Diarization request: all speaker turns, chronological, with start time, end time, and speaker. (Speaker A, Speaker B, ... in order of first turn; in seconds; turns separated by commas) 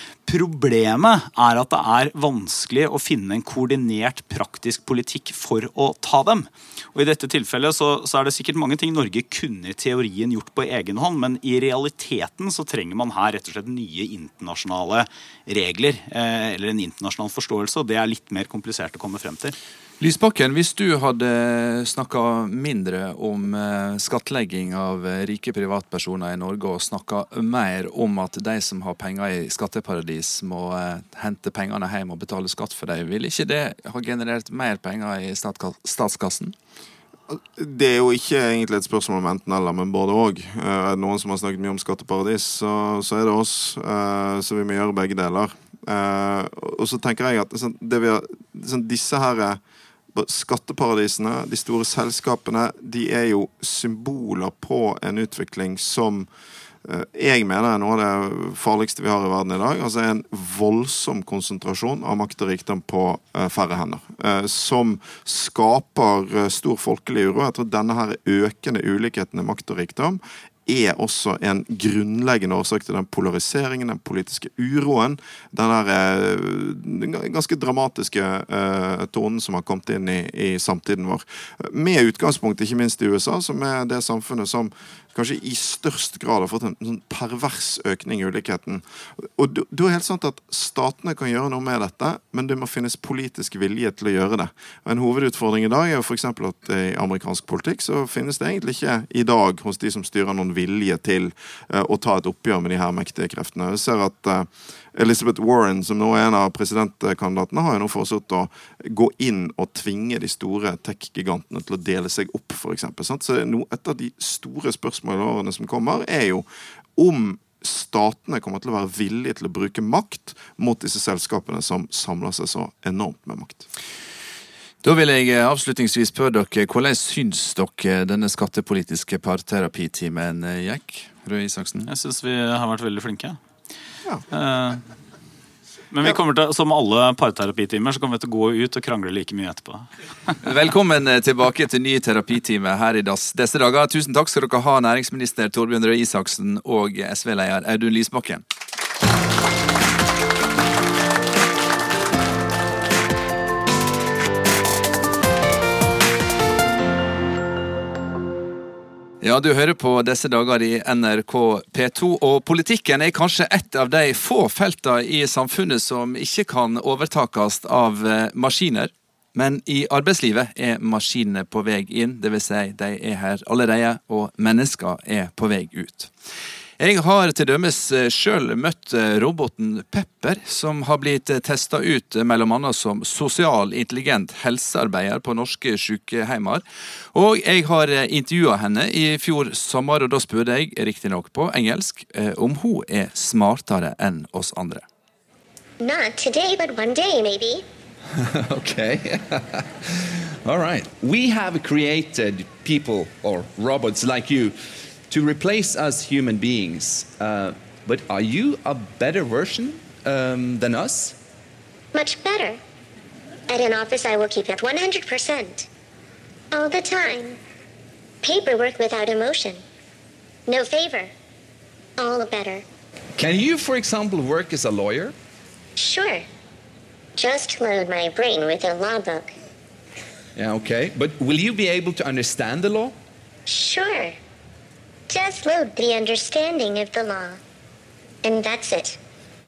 Speaker A: 0.2-19.5, Speaker B: 20.0-36.5, Speaker C: 37.3-49.6, Speaker C: 50.1-56.3, Speaker C: 56.8-123.6, Speaker B: 124.8-131.9, Speaker A: 131.8-133.4, Speaker A: 134.3-134.8, Speaker A: 135.9-139.9, Speaker B: 140.4-148.4, Speaker B: 159.2-176.1, Speaker B: 176.8-194.8, Speaker D: 195.8-197.6, Speaker E: 198.2-204.5, Speaker E: 205.1-211.2, Speaker D: 211.9-212.6, Speaker D: 213.5-215.7, Speaker D: 216.5-217.4, Speaker D: 218.2-219.6, Speaker D: 220.5-221.1, Speaker D: 222.0-222.6, Speaker E: 223.2-225.1, Speaker D: 225.8-226.2, Speaker D: 227.2-229.3, Speaker E: 230.3-232.9, Speaker D: 233.5-234.2, Speaker D: 235.1-237.4, Speaker D: 238.2-239.0